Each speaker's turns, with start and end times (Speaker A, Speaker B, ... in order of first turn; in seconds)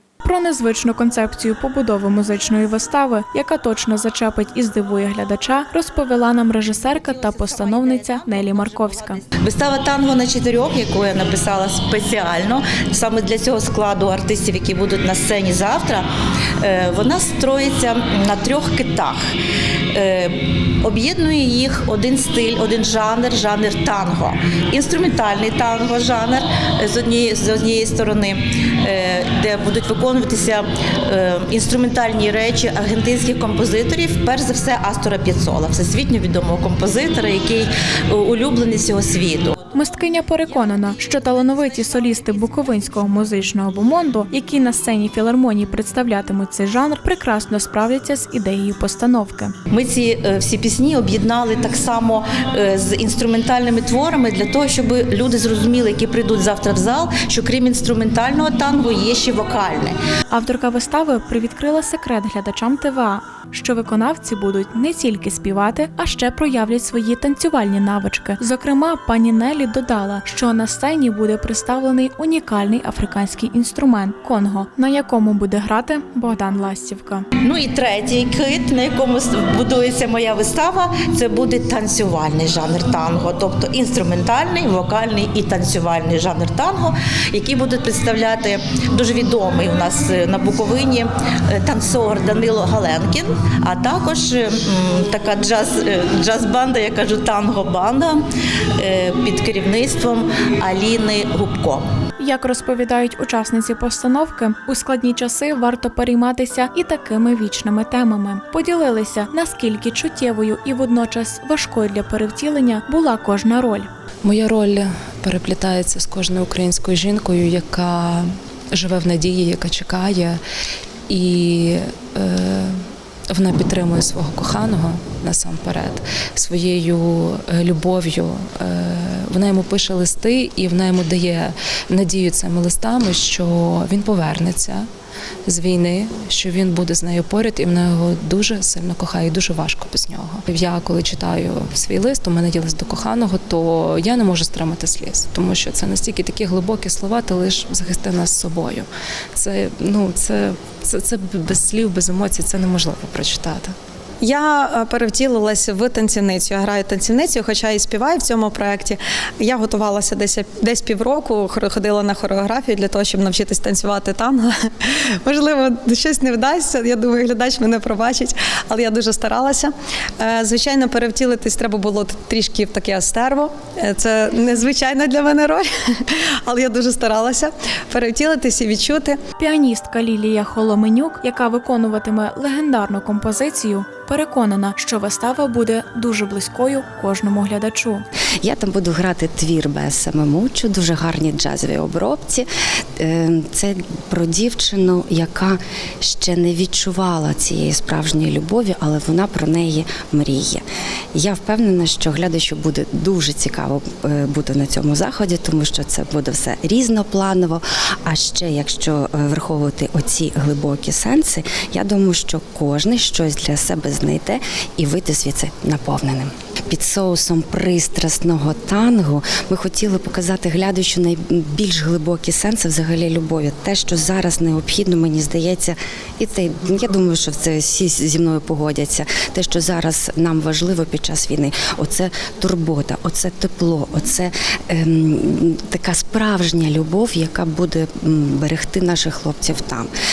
Speaker A: 0.2-9.2, 39.7-49.5, 60.3-77.2, 102.2-113.9, 179.4-188.0
Speaker B: 6.8-16.1, 16.6-19.3, 19.9-39.7, 40.5-43.6, 49.7-60.0, 77.4-98.2, 98.8-101.8
Speaker C: 114.2-120.4, 121.1-122.7, 123.3-134.8, 135.5-153.7
Speaker D: 154.2-179.2
Speaker E: 188.4-239.9